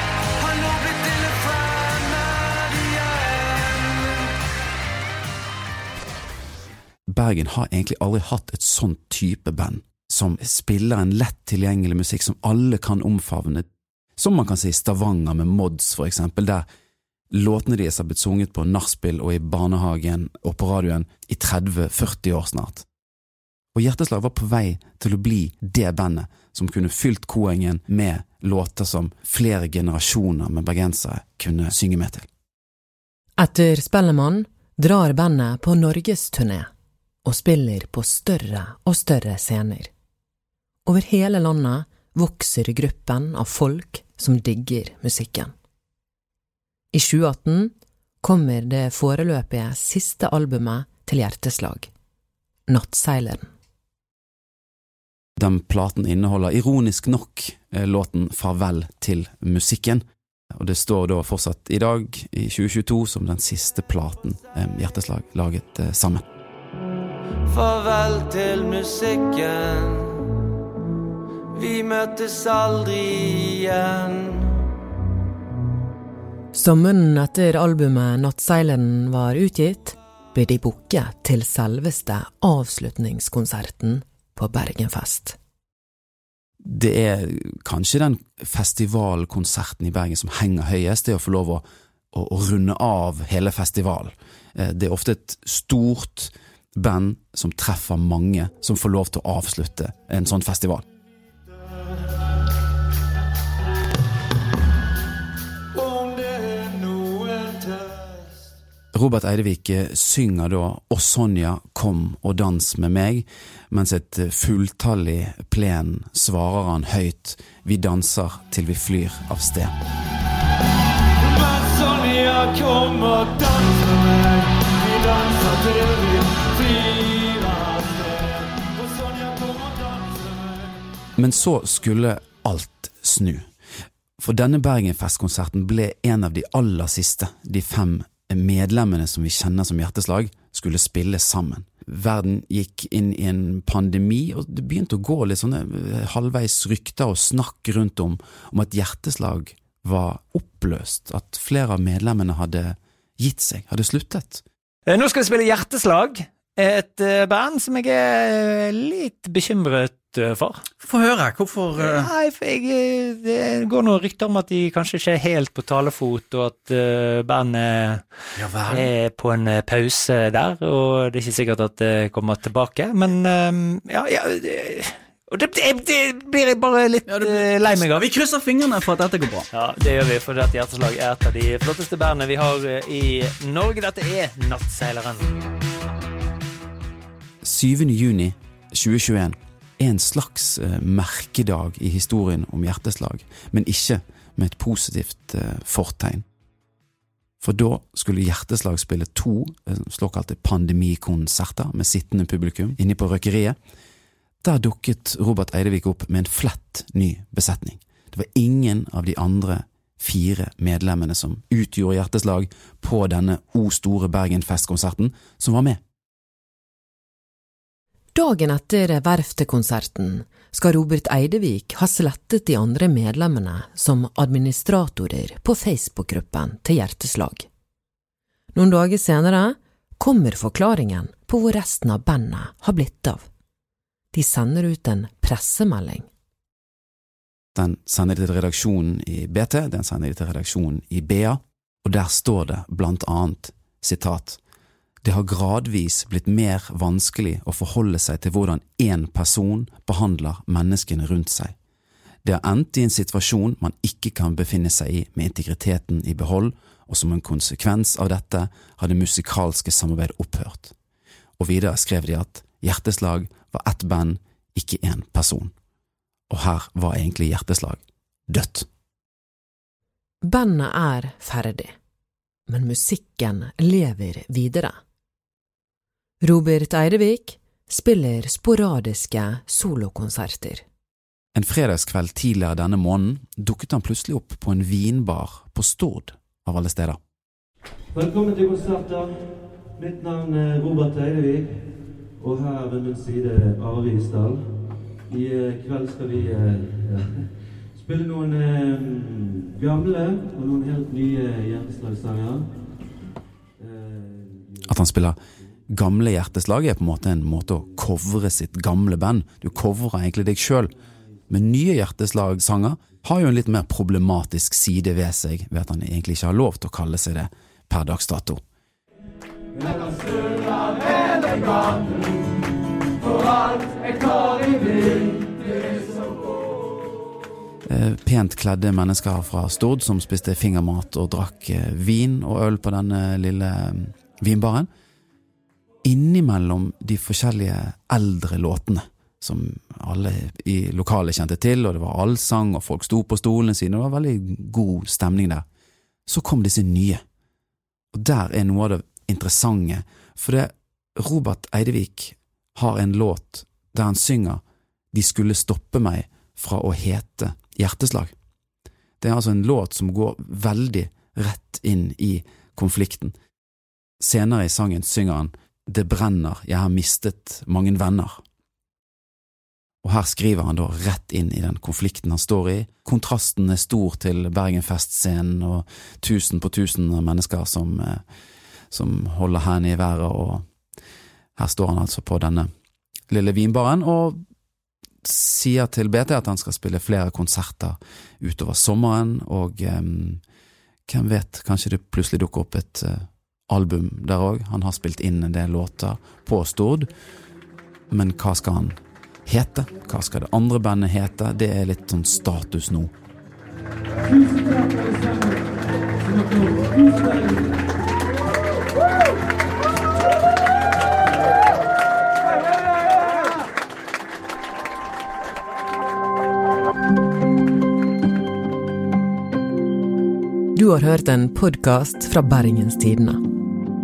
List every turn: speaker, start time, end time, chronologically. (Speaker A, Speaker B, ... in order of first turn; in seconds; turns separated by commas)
Speaker A: 0.4-4.3, Speaker B: 7.1-13.7, Speaker B: 14.2-16.6, Speaker B: 17.3-22.9, Speaker B: 23.7-32.3, Speaker C: 33.4-36.7, Speaker C: 37.2-39.9, Speaker C: 40.9-45.5, Speaker C: 46.9-51.9, Speaker C: 52.7-53.5, Speaker B: 55.4-60.0, Speaker B: 60.6-66.2, Speaker A: 67.5-70.4, Speaker A: 71.5-74.6, Speaker C: 76.5-85.4, Speaker B: 86.7-100.8, Speaker A: 105.8-108.1, Speaker B: 108.9-119.8, Speaker A: 121.2-130.6, Speaker B: 131.2-133.5, Speaker B: 134.2-154.4, Speaker D: 154.9-160.6, Speaker E: 160.8-162.1, Speaker D: 161.8-168.1, Speaker E: 168.4-168.9, Speaker D: 168.7-178.0, Speaker E: 177.1-179.5, Speaker D: 179.5-185.3, Speaker B: 187.4-196.2, Speaker B: 197.4-203.6, Speaker B: 204.4-215.8, Speaker C: 218.2-227.5, Speaker C: 228.5-233.3, Speaker C: 234.1-236.1, Speaker B: 237.6-244.4, Speaker B: 245.0-251.6, Speaker B: 252.2-260.7, Speaker B: 261.4-265.5, Speaker B: 266.3-268.7, Speaker C: 270.2-271.7, Speaker C: 272.5-274.8, Speaker C: 276.2-280.6, Speaker B: 281.3-287.0, Speaker A: 287.9-291.7, Speaker A: 292.2-294.5, Speaker A: 295.1-297.2, Speaker A: 297.8-302.5, Speaker A: 303.6-304.6, Speaker B: 304.7-305.2, Speaker B: 305.7-310.7, Speaker B: 311.3-318.4, Speaker B: 327.7-334.7, Speaker B: 335.9-345.4, Speaker B: 346.1-347.0, Speaker B: 347.9-354.4, Speaker B: 354.9-358.1, Speaker B: 359.0-363.1, Speaker B: 364.0-368.2, Speaker B: 369.8-378.0, Speaker B: 378.7-380.4, Speaker B: 381.4-382.5, Speaker B: 383.1-384.2, Speaker B: 385.0-390.2, Speaker B: 390.9-396.9, Speaker B: 397.9-402.9, Speaker C: 420.5-423.2